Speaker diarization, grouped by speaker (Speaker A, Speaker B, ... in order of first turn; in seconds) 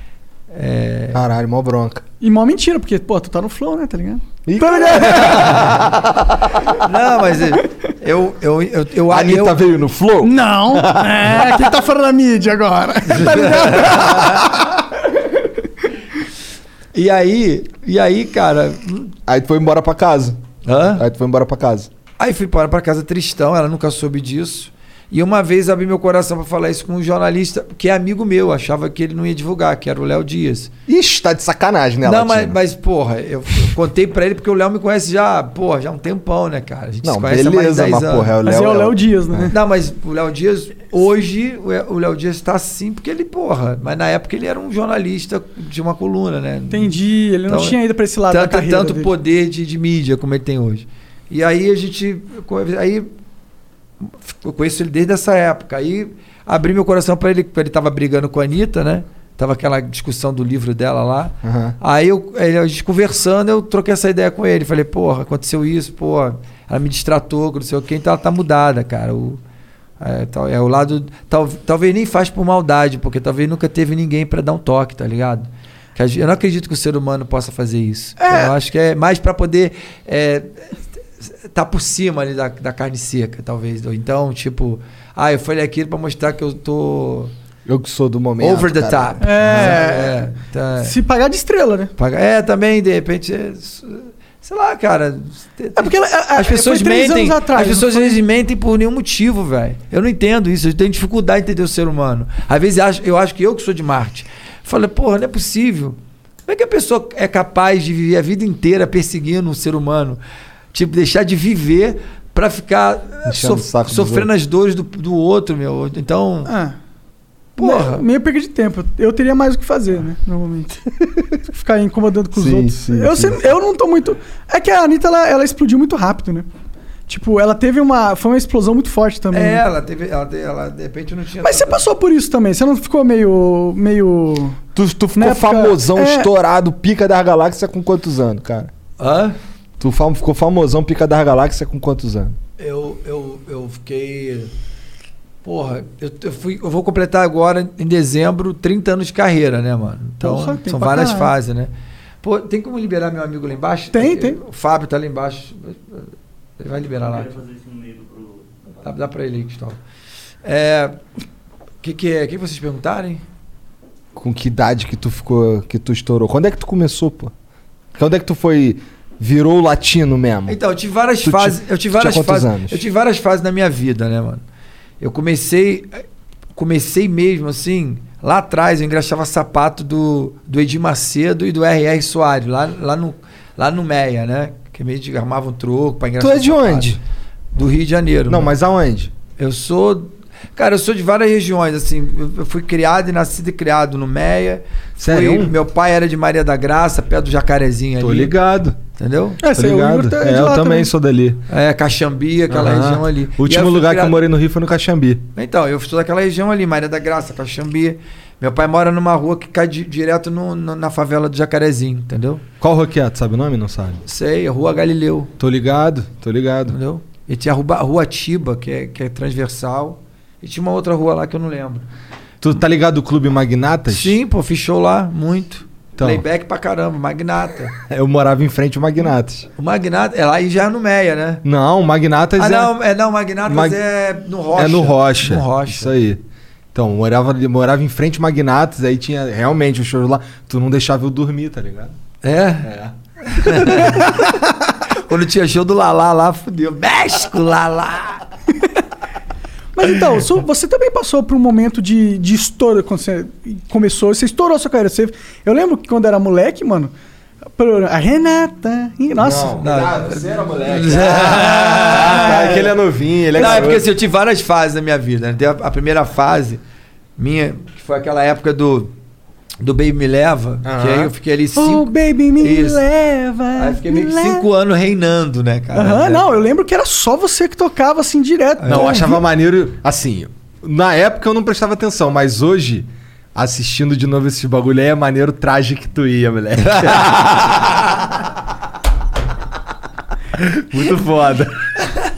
Speaker A: 0.5-1.2, 5.2-5.7, 6.7-9.7, 13.1-14.7, 16.9-19.1, 20.6-21.0, 22.2-30.7, 32.0-38.3, 39.5-53.1, 54.0-69.4, 70.0-87.3, 88.4-91.0, 92.0-110.2, 110.7-116.5, 117.6-118.0, 129.3-131.8, 139.0-139.4, 142.6-144.5, 145.4-151.7, 152.2-157.5, 158.8-159.8, 160.4-161.0, 161.8-163.2, 170.5-174.4, 175.0-187.0, 187.5-188.5, 189.4-198.3, 199.0-199.4, 201.5-204.2, 205.4-212.4, 214.1-215.3, 216.7-221.9, 223.9-227.8, 229.6-231.4, 232.4-235.9, 242.2-242.7, 243.3-244.3, 244.9-248.2, 259.6-262.7, 263.4-266.6, 267.2-268.9, 269.6-272.8, 273.6-276.4, 278.6-279.1, 286.7-287.7
Speaker B: 1.1-2.0, 4.5-6.7, 9.1-11.6, 19.3-20.4, 20.9-21.9, 30.9-32.6, 37.0-39.5, 61.4-61.8, 87.7-89.9, 113.2-114.3, 122.3-123.5, 134.8-138.7, 139.8-142.4, 164.2-167.3, 167.9-170.6, 171.2-172.8, 186.2-187.0, 188.3-189.1, 195.0-195.5, 198.0-198.8, 199.5-201.4, 202.5-205.3, 212.6-214.0, 215.4-216.8, 222.4-224.2, 226.0-226.2, 227.9-229.5, 231.4-232.7, 233.5-233.8, 234.6-236.2, 236.7-241.9, 242.6-244.0, 259.2-263.9, 270.6-271.1, 278.7-287.3, 290.5-291.7
Speaker C: 2.2-5.6, 10.2-14.7, 38.4-39.5, 46.7-49.1, 78.2-78.5, 89.2-90.3, 90.8-91.9, 95.8-98.2, 116.5-116.8, 117.6-120.8, 121.5-126.5, 127.1-129.6, 131.4-134.6, 135.2-136.3, 150.2-151.3, 153.9-154.4, 199.4-200.9, 243.8-244.3, 249.8-256.9, 257.6-259.6, 271.6-274.4, 275.8-279.2